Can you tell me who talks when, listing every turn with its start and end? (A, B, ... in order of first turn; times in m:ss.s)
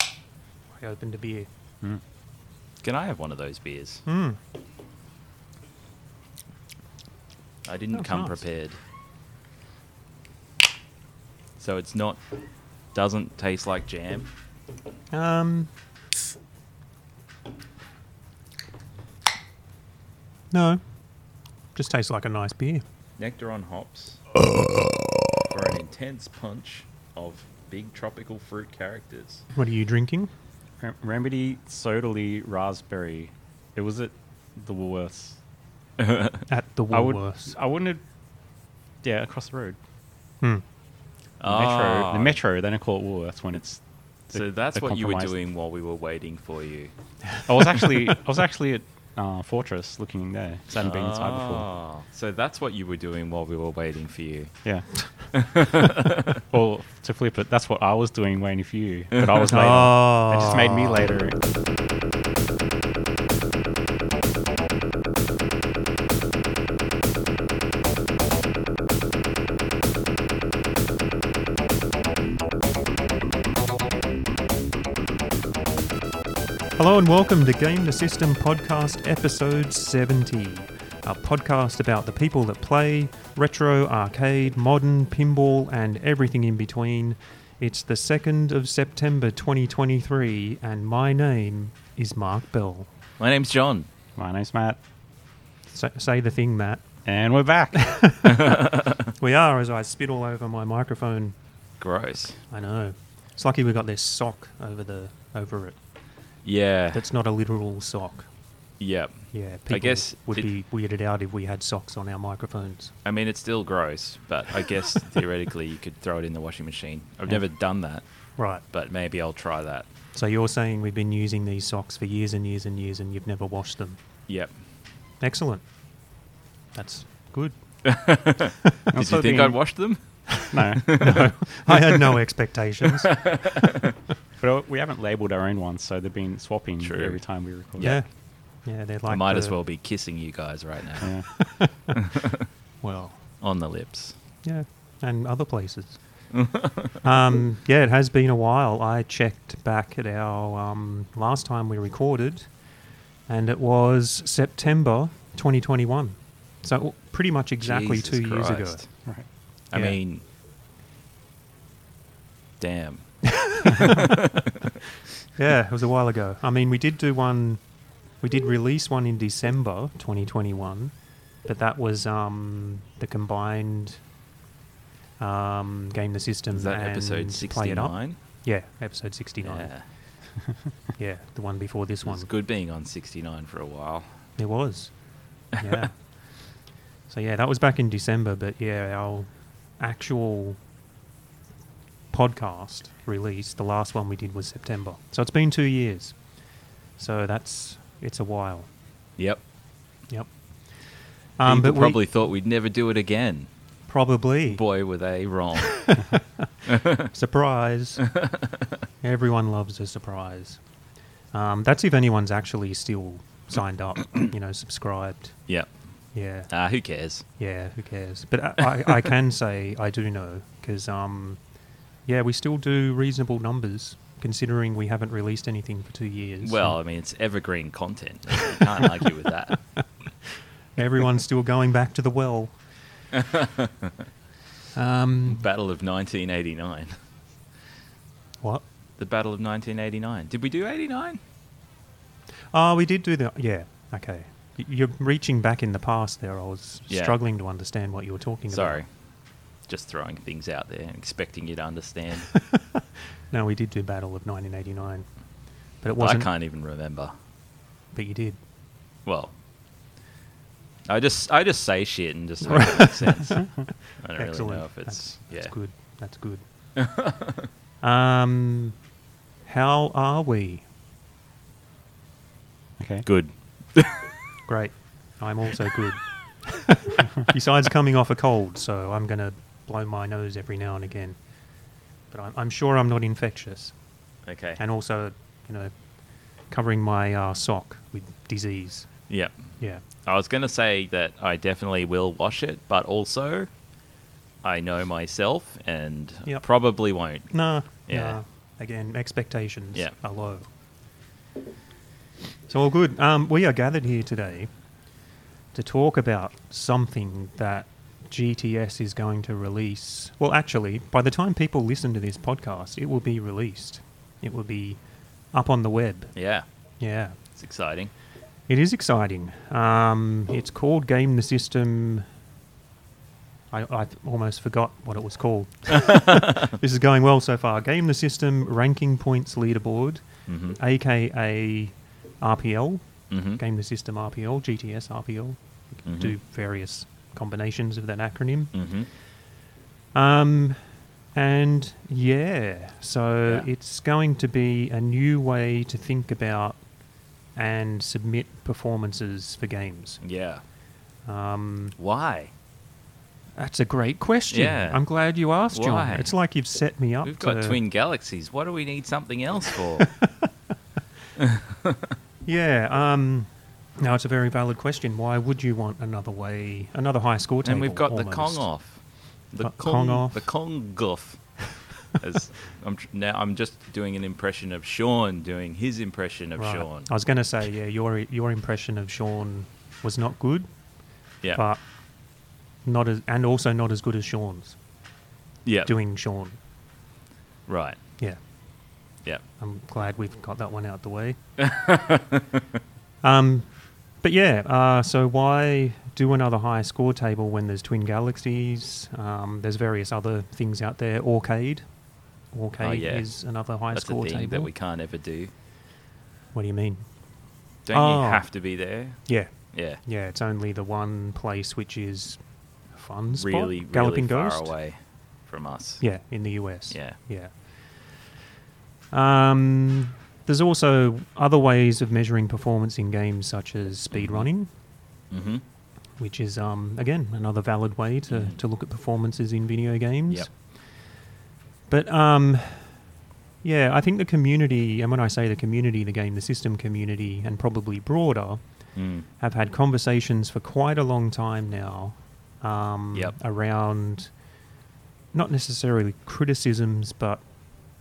0:00.8-0:01.5 A
0:02.8-0:04.0 B
0:04.1-0:04.4 A
0:07.7-0:08.8 B
0:07.9-0:08.4 A
0:11.6-0:12.2 B
0:12.9-0:14.3 B
0:15.1-0:15.7 A
0:20.5-0:20.8 A
0:21.8-0:22.8 A
0:23.2-0:24.2 B
0:25.4-0:29.4 B
0:29.5-0:30.3 A
0:30.8-0:35.4 C
0:36.0-0:36.4 B
0:36.5-0:37.6 A
0:36.9-0:38.0 C
0:39.0-0:39.8 C
0:41.4-0:42.4 B
0:41.4-0:45.3 C
0:44.3-0:46.9 B
0:47.5-0:51.7 C
0:50.8-0:54.5 B
0:55.3-0:56.4 B
0:56.5-1:01.4 C
0:59.2-0:59.4 B
0:59.4-1:01.0 A
1:16.8-1:32.9 A
1:33.2-1:33.9 B
1:34.2-1:34.8 C
1:35.7-1:36.8 A
1:37.0-1:37.9 C
1:37.8-1:41.4 A
1:38.2-1:39.1 B
1:41.8-1:42.4 B
1:42.5-1:45.8 A
1:46.4-1:47.0 B
1:46.9-1:48.3 A
1:48.8-1:50.5 B
1:49.3-1:52.9 A
1:53.0-1:58.0 B
1:58.4-1:58.6 A
1:58.7-1:59.9 B
2:00.1-2:04.0 A
2:05.2-2:05.6 A
2:06.8-2:07.6 A
2:07.8-2:12.0 B
2:08.9-2:09.6 C
2:10.5-2:11.2 C
2:10.8-2:13.2 A
2:12.8-2:13.9 B
2:14.4-2:18.0 C
2:16.8-2:17.2 B
2:17.8-2:18.0 B
2:17.8-2:18.1 A
2:18.6-2:19.6 A
2:19.1-2:21.1 B
2:21.0-2:21.3 C
2:21.4-2:22.0 A
2:22.0-2:22.5 B
2:22.8-2:23.2 A
2:23.4-2:24.2 B
2:24.4-2:26.0 A
2:26.3-2:27.0 B
2:27.0-2:32.5 A
2:33.3-2:38.8 A
2:37.6-2:38.9 B
2:39.7-2:40.2 B
2:42.6-2:43.0 B
2:43.3-2:44.1 A
2:43.8-2:44.8 B
2:45.4-2:47.6 A
2:48.2-2:50.9 A
2:51.4-2:54.0 A
2:55.2-2:59.7 A
2:56.5-2:58.2 B
2:59.4-2:59.8 B
3:01.0-3:02.3 A
3:02.0-3:04.1 B
3:04.4-3:04.9 A
3:05.6-3:05.9 B
3:05.6-3:05.9 A
3:07.1-3:10.6 A
3:12.1-3:16.1 A
3:17.0-3:18.7 A
3:21.4-3:22.0 A
3:21.4-3:23.5 B
3:23.9-3:24.6 A
3:24.5-3:25.8 B
3:25.6-3:28.1 A
3:26.7-3:27.1 B
3:28.0-3:28.7 B
3:29.0-3:30.6 A
3:31.3-3:35.4 A
3:36.1-3:36.5 A
3:36.5-3:37.2 B
3:37.4-3:41.4 A
3:42.1-3:46.8 A
3:46.4-3:49.6 B
3:50.8-3:52.6 A
3:53.1-3:53.9 B
3:54.7-3:55.4 A
3:55.3-3:57.0 B
3:59.0-4:01.2 B
4:02.5-4:08.8 A
4:06.9-4:07.2 B
4:08.5-4:08.9 B
4:09.7-4:12.3 B
4:12.3-4:15.1 A
4:15.8-4:16.3 A
4:16.0-4:17.1 B
4:17.9-4:18.4 A
4:19.1-4:19.3 B
4:20.9-4:25.5 B
4:22.5-4:26.4 A
4:26.8-4:27.5 B
4:27.8-4:28.8 A
4:29.5-4:30.6 A
4:32.8-4:33.1 C
4:33.0-4:34.1 B
4:34.5-4:41.2 A
4:42.1-4:43.7 A
4:44.3-4:44.6 B
4:44.6-4:45.7 A
4:46.5-4:48.9 A
4:49.1-4:53.5 B
4:54.4-4:57.3 B
4:57.3-5:00.5 A
4:57.9-4:58.2 B
5:02.5-5:04.5 A
5:05.5-5:14.8 A
5:15.3-5:16.1 A
5:16.2-5:16.4 B
5:16.8-5:17.2 A
5:17.4-5:17.9 B
5:18.5-5:22.1 A
5:23.5-5:30.0 A
5:25.9-5:26.3 B
5:30.3-5:30.6 B
5:30.6-5:32.8 A
5:33.1-5:33.4 B
5:33.4-5:38.5 A
5:35.8-5:36.1 B
5:38.5-5:38.9 B
5:39.9-5:40.6 A
5:41.2-5:46.6 A
5:47.4-5:50.0 A
5:50.0-5:50.4 B
5:51.1-5:51.8 A
5:51.8-5:52.3 B
5:53.4-5:57.6 A
5:54.3-5:54.8 B
5:55.5-5:56.1 B
5:57.0-5:59.9 B
5:59.8-6:00.1 A
6:01.2-6:01.9 B
6:02.3-6:08.5 A
6:07.4-6:11.3 B
6:09.4-6:10.3 A
6:11.9-6:16.9 B
6:16.4-6:20.5 A
6:22.6-6:24.6 A
6:25.4-6:25.7 B
6:25.7-6:26.4 A
6:27.5-6:27.8 B
6:29.4-6:31.2 A
6:31.4-6:32.4 B
6:33.0-6:33.5 A
6:34.0-6:41.6 A
6:42.3-6:44.5 A
6:42.6-6:43.1 B
6:43.7-6:45.3 B
6:46.3-6:46.9 A
6:47.7-6:49.0 B
6:47.7-6:48.3 A
6:49.1-6:52.2 A
6:49.5-6:49.8 B
6:52.7-6:54.5 A
6:53.1-6:55.8 B
6:55.8-6:57.3 A
6:56.7-6:57.0 B
6:58.9-7:04.5 A
7:03.9-7:04.3 B
7:05.1-7:05.4 B
7:06.0-7:10.5 A
7:08.1-7:08.4 B
7:11.7-7:12.8 A
7:13.4-7:18.4 A
7:18.8-7:19.1 B
7:19.2-7:24.1 A
7:25.1-7:27.2 A